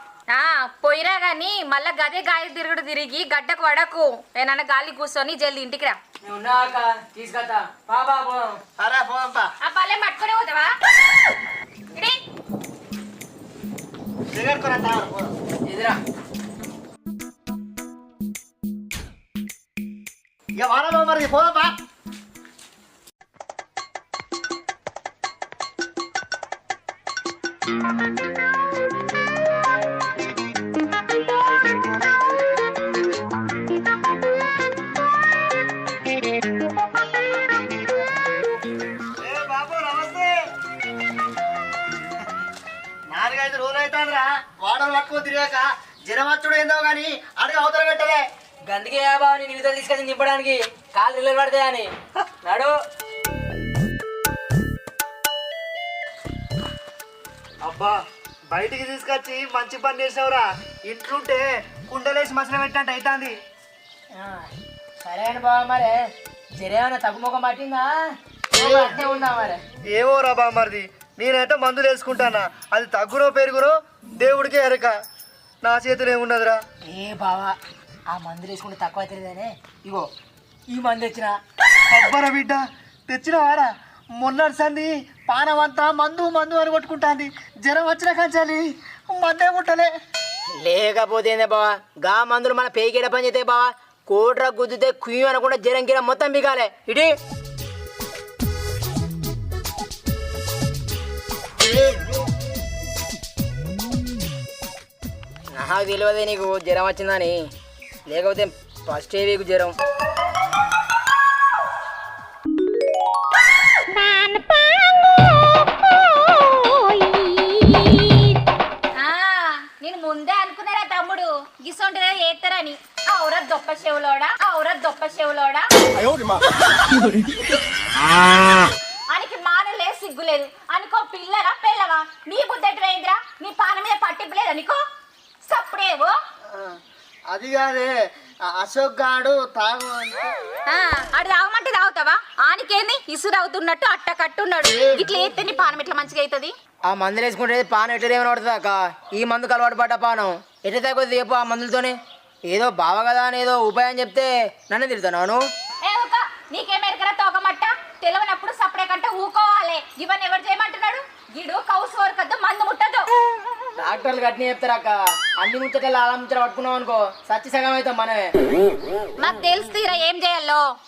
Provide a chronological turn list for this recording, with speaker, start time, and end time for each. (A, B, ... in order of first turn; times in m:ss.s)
0:00.3-0:06.0 A
0:06.2-0:08.6 B
0:08.8-0:09.5 C
0:09.6-0:10.7 A
0:11.9-0:12.2 A
0:14.3-0:15.3 C
0:15.6-0:16.0 B
0:20.5-0:21.7 C
0:39.2-0:40.4 C
0:43.1-0:48.2 C
0:48.7-0:51.9 B
0:52.4-0:52.7 B
0:57.6-0:58.0 C
0:58.5-1:03.3 C
1:04.1-1:04.5 B
1:05.0-1:06.0 B
1:06.6-1:08.0 B
1:08.5-1:09.6 B
1:08.6-1:08.9 C
1:09.9-1:15.0 C
1:15.6-1:16.6 C
1:16.8-1:17.6 B
1:18.1-1:20.1 B
1:20.7-1:21.4 B
1:21.9-1:29.9 C
1:30.6-1:37.1 B
1:45.5-1:47.4 B
1:48.1-1:49.7 B
1:53.9-1:55.4 A
1:56.2-1:58.3 A
1:59.0-2:05.7 A
2:09.1-2:14.8 A
2:15.4-2:16.2 A
2:16.5-2:16.8 C
2:17.3-2:17.9 C
2:18.4-2:20.3 C
2:20.7-2:26.5 A
2:26.9-2:32.0 B
2:32.5-2:35.4 B
2:35.8-2:43.1 A
2:43.8-2:48.3 B
2:49.2-2:50.6 A